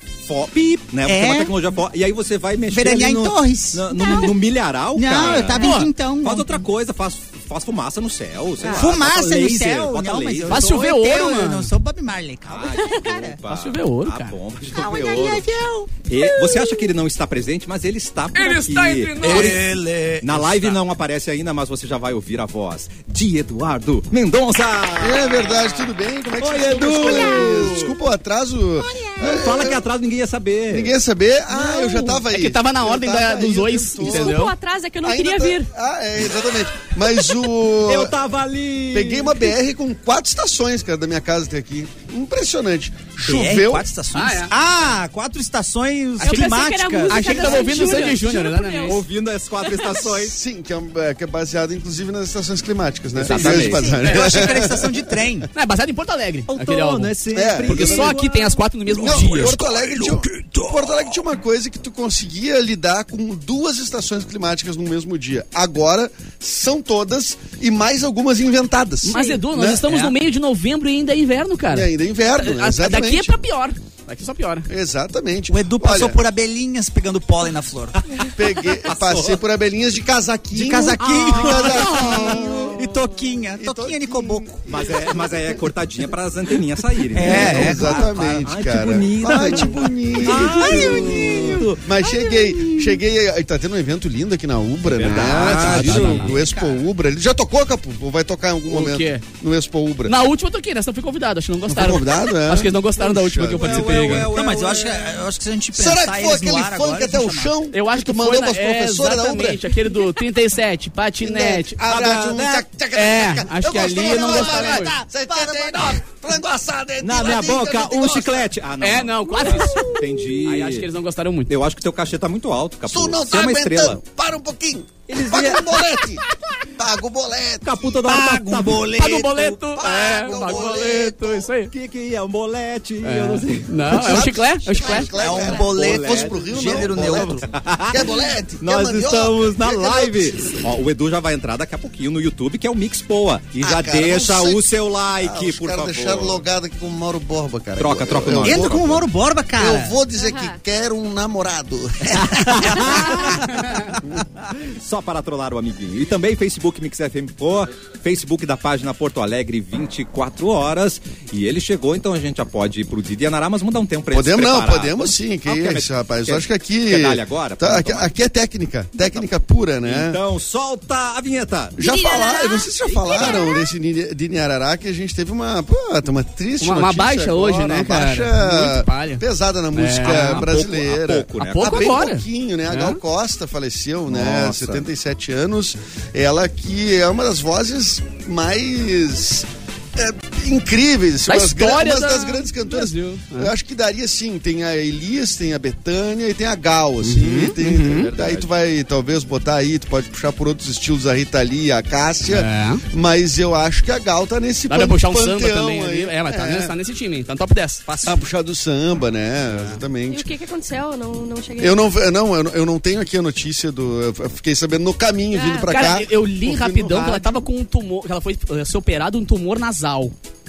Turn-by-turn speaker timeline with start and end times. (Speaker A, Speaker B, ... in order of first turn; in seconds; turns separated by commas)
Speaker A: 0.2-10.7, Speaker B: 1.1-1.5, Speaker B: 2.7-4.3, Speaker C: 3.9-4.3, Speaker B: 5.0-6.7, Speaker D: 5.5-5.9, Speaker C: 8.6-8.9, Speaker B: 8.7-13.4, Speaker D: 10.5-11.7, Speaker A: 12.4-15.5, Speaker D: 13.4-14.3, Speaker B: 14.7-16.6, Speaker A: 16.0-27.9, Speaker D: 18.3-19.6, Speaker B: 19.2-20.8, Speaker E: 25.0-29.8, Speaker B: 28.8-29.4, Speaker A: 29.2-30.9, Speaker E: 30.7-34.4, Speaker C: 31.5-32.1, Speaker D: 32.1-34.5, Speaker C: 34.0-35.7, Speaker E: 35.0-38.2, Speaker A: 37.7-39.5, Speaker E: 38.9-43.9, Speaker B: 43.2-48.1, Speaker D: 44.1-44.5, Speaker C: 46.2-49.0, Speaker D: 46.2-49.0, Speaker A: 48.8-50.4, Speaker C: 49.6-49.9, Speaker E: 50.0-55.1, Speaker A: 53.1-54.0, Speaker D: 53.3-53.6, Speaker B: 53.4-55.5, Speaker C: 53.6-54.4, Speaker D: 55.5-59.6, Speaker A: 56.5-58.6, Speaker E: 57.3-58.1, Speaker E: 58.9-70.0, Speaker B: 59.0-61.1, Speaker D: 69.0-74.7, Speaker C: 69.1-69.4, Speaker B: 69.9-70.1, Speaker E: 71.7-73.4, Speaker E: 74.7-76.2, Speaker B: 75.5-78.1, Speaker E: 78.3-85.6, Speaker A: 78.8-79.4, Speaker B: 80.5-84.6, Speaker A: 81.0-82.7, Speaker D: 81.8-82.2, Speaker A: 84.7-91.8, Speaker B: 87.1-88.5, Speaker E: 87.2-100.2, Speaker B: 90.2-93.0, Speaker A: 94.9-96.4, Speaker D: 95.0-96.3, Speaker B: 95.8-96.8, Speaker D: 98.7-99.2, Speaker D: 100.0-104.3, Speaker E: 101.7-104.3, Speaker A: 103.5-105.2, Speaker B: 104.2-107.5, Speaker E: 105.7-110.0, Speaker D: 107.7-111.8, Speaker E: 111.2-118.5, Speaker A: 111.9-112.6, Speaker D: 112.9-114.9, Speaker B: 113.7-116.0, Speaker A: 117.0-120.9, Speaker D: 118.8-121.5, Speaker E: 119.5-120.0, Speaker A: 121.5-124.0, Speaker E: 122.9-128.0, Speaker A: 125.1-126.0, Speaker A: 127.6-128.9, Speaker B: 128.0-130.8, Speaker D: 128.9-131.7, Speaker E: 129.8-131.5, Speaker A: 131.7-134.3, Speaker D: 133.0-135.1, Speaker E: 133.9-140.6, Speaker C: 134.8-135.4, Speaker B: 135.1-137.4, Speaker A: 135.2-146.4, Speaker E: 143.6-149.0, Speaker A: 147.8-149.0, Speaker B: 148.4-149.9, Speaker E: 149.6-153.4, Speaker C: 150.2-150.6, Speaker A: 152.1-153.4, Speaker A: 154.5-168.1, Speaker E: 164.1-170.2, Speaker A: 168.9-169.2, Speaker A: 169.8-171.8, Speaker E: 171.8-206.7, Speaker C: 171.8-173.7, Speaker D: 173.0-173.4, Speaker D: 176.6-179.2, Speaker D: 179.7-180.5, Speaker A: 180.0-181.9, Speaker D: 181.4-183.0, Speaker A: 184.1-184.8, Speaker D: 191.3-193.5, Speaker D: 197.0-198.1, Speaker A: 197.8-198.5, Speaker D: 202.3-202.8, Speaker D: 204.7-207.8, Speaker B: 207.8-208.2, Speaker E: 208.0-210.3, Speaker C: 210.1-211.8, Speaker E: 211.6-217.4, Speaker C: 215.3-215.8, Speaker D: 215.7-220.1